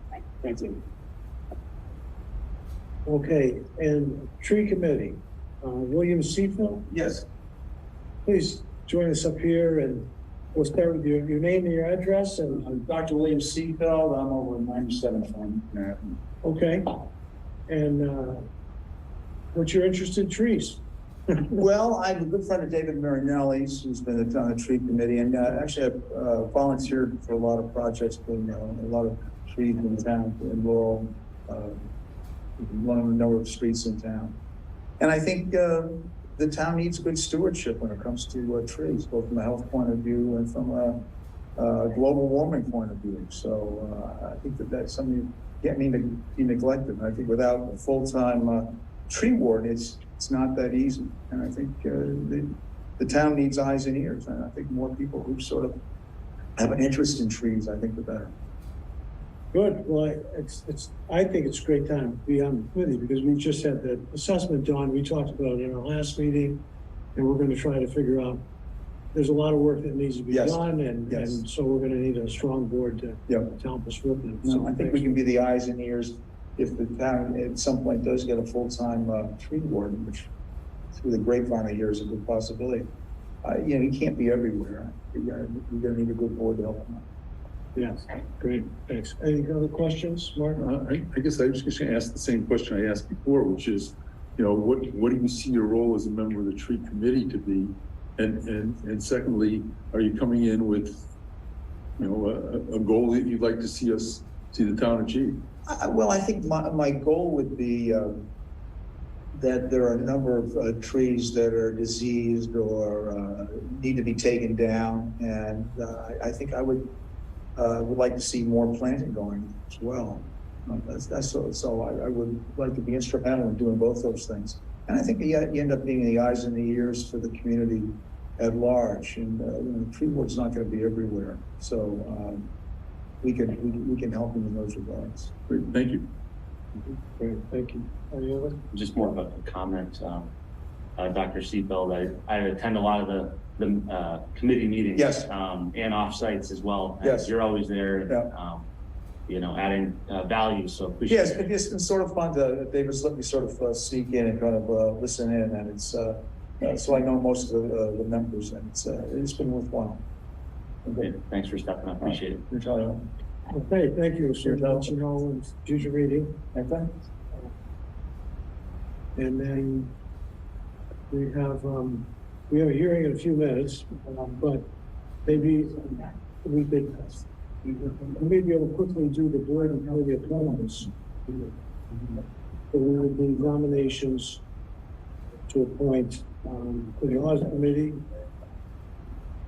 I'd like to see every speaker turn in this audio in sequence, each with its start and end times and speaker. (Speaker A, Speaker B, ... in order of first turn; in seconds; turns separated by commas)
Speaker A: 0.4-0.8, Speaker A: 3.0-6.9, Speaker B: 6.9-7.2, Speaker A: 8.2-12.7, Speaker B: 12.5-16.2, Speaker A: 16.4-17.1, Speaker A: 17.7-18.5, Speaker A: 19.5-20.8, Speaker B: 21.3-31.9, Speaker B: 32.6-34.4, Speaker B: 35.0-55.8, Speaker B: 56.6-58.3, Speaker A: 59.5-66.6, Speaker A: 67.1-68.4, Speaker A: 69.1-75.2, Speaker B: 70.3-71.4, Speaker B: 73.3-73.5, Speaker B: 74.4-80.3, Speaker B: 80.9-82.9, Speaker B: 83.4-87.0, Speaker A: 87.8-90.7, Speaker C: 90.5-101.0, Speaker C: 102.0-105.4, Speaker B: 105.7-108.3, Speaker B: 109.3-116.9, Speaker B: 117.5-132.5, Speaker B: 133.2-135.3, Speaker C: 135.5-136.1, Speaker A: 136.8-138.6, Speaker D: 138.7-140.3, Speaker D: 140.9-148.7, Speaker B: 144.9-145.3, Speaker B: 147.0-147.3, Speaker B: 148.1-148.3, Speaker D: 149.3-151.5, Speaker B: 151.1-160.0, Speaker B: 160.8-161.1, Speaker D: 161.0-162.4, Speaker B: 162.0-163.1, Speaker A: 163.5-166.4, Speaker B: 164.4-164.9, Speaker B: 166.5-166.9, Speaker A: 169.2-169.9, Speaker A: 171.1-174.7, Speaker A: 175.2-181.5, Speaker A: 182.7-184.4, Speaker A: 185.5-188.0